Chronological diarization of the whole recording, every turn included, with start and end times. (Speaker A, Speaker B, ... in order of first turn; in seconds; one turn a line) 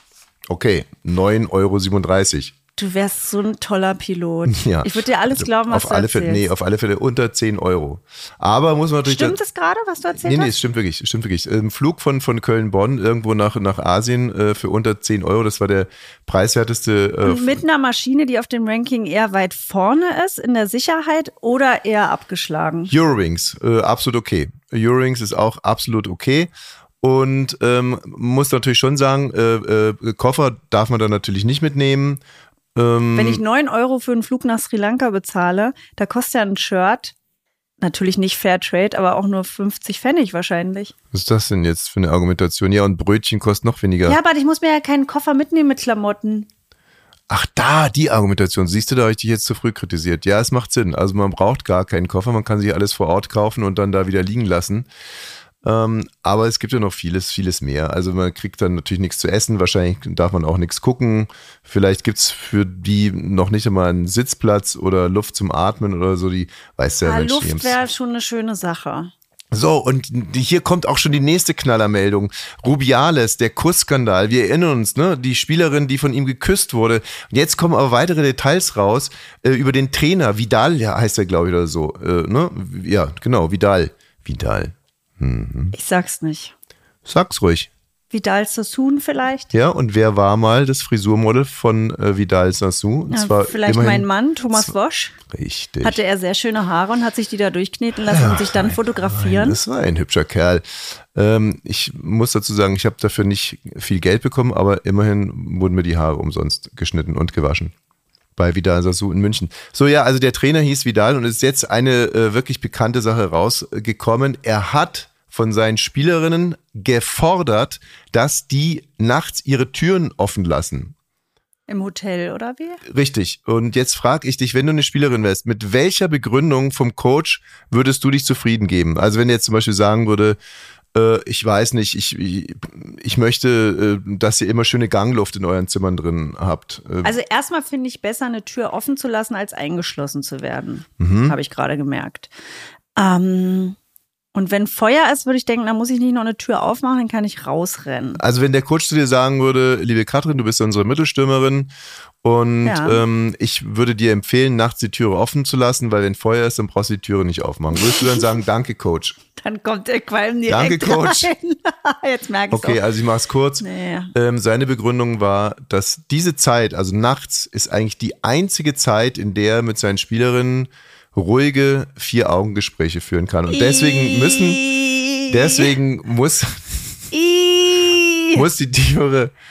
Speaker A: 0.5-2.5
Speaker B: 2.8-6.5
Speaker A: 4.5-9.4
Speaker B: 9.0-10.5
Speaker A: 10.2-17.6
Speaker B: 17.2-22.9
Speaker A: 22.9-32.2
Speaker A: 32.7-33.4
Speaker B: 33.1-37.1
Speaker B: 37.8-40.9
Speaker A: 41.1-44.2
Speaker B: 44.0-46.5
Speaker A: 47.3-54.9
Speaker A: 55.6-67.8
Speaker B: 67.0-69.1
Speaker A: 69.5-85.7
Speaker B: 85.7-86.5
Speaker A: 87.0-87.7
Speaker B: 88.1-89.5
Speaker A: 89.5-94.7
Speaker B: 93.1-95.2
Speaker A: 95.3-96.0
Speaker B: 95.8-99.6
Speaker A: 98.0-107.7
Speaker A: 108.4-120.9
Speaker B: 121.7-122.8
Speaker A: 122.9-130.4
Speaker A: 130.9-137.2
Speaker B: 137.0-142.3
Speaker A: 141.0-141.4
Speaker B: 143.0-143.8
Speaker B: 144.3-148.2
Speaker A: 148.2-151.7
Speaker A: 152.2-159.2
Speaker B: 152.6-153.0
Speaker B: 157.9-158.1
Speaker B: 159.4-162.8
Speaker A: 160.5-161.3
Speaker A: 162.5-174.6
Speaker B: 163.6-164.1
Speaker B: 173.5-175.7
Speaker A: 175.3-177.0
Speaker B: 177.1-178.4
Speaker A: 178.3-179.3